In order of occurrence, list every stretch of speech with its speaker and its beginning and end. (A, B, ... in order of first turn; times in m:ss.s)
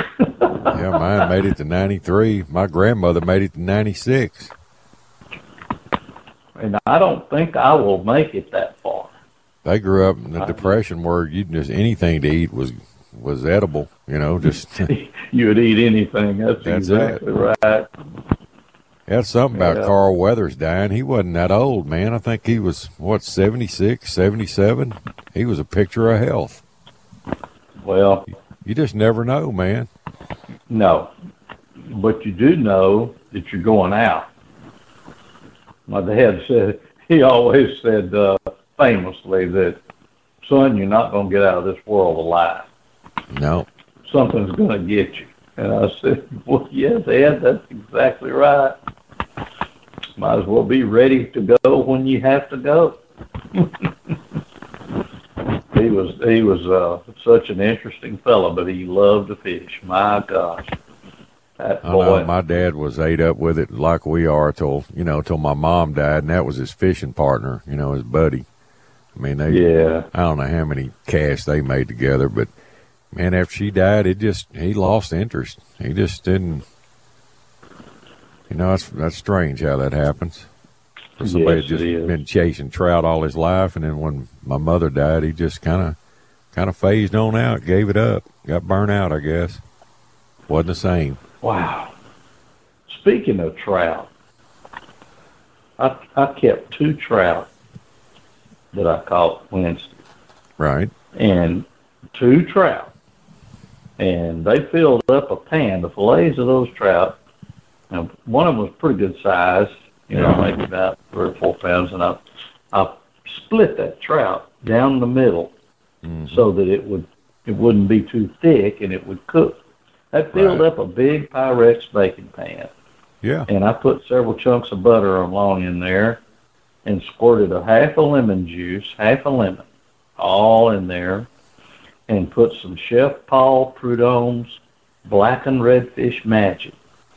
0:00.2-0:01.3 A
0:00.7-0:04.5 B
0:06.6-0:09.1 A
0:09.6-0:14.9 B
0:10.4-0:10.7 A
0:14.9-0:17.9 A
0:16.6-0:17.2 B
0:19.1-0:26.6 B
0:19.5-0:19.9 A
0:27.8-0:28.3 A
0:28.6-0:29.9 B
0:30.7-0:31.1 A
0:31.9-0:34.3 A
0:35.9-0:39.8 A
0:40.4-0:42.7 A
0:43.3-0:43.7 B
0:44.0-0:48.8 A
0:50.2-0:53.0 A
0:53.6-0:53.9 A
0:55.7-1:00.8 A
1:01.6-1:02.3 A
1:01.8-1:08.5 B
1:09.2-1:12.5 B
1:09.5-1:10.1 A
1:13.1-1:16.6 B
1:18.5-1:20.5 B
1:21.2-1:26.0 B
1:21.2-1:22.2 A
1:26.5-1:29.6 B
1:30.5-1:31.2 B
1:31.4-1:31.9 A
1:32.9-1:34.1 A
1:35.8-1:37.5 A
1:38.7-1:39.9 A
1:40.6-1:40.9 B
1:41.2-1:42.9 A
1:44.0-1:47.2 A
1:47.9-1:55.5 A
1:50.1-1:50.5 B
1:56.0-1:56.4 B
1:56.3-1:59.6 A
2:00.1-2:02.7 A
2:00.3-2:00.6 B
2:03.2-2:03.5 B
2:03.5-2:06.2 A
2:06.8-2:09.6 A
2:10.2-2:11.3 A
2:12.1-2:16.8 A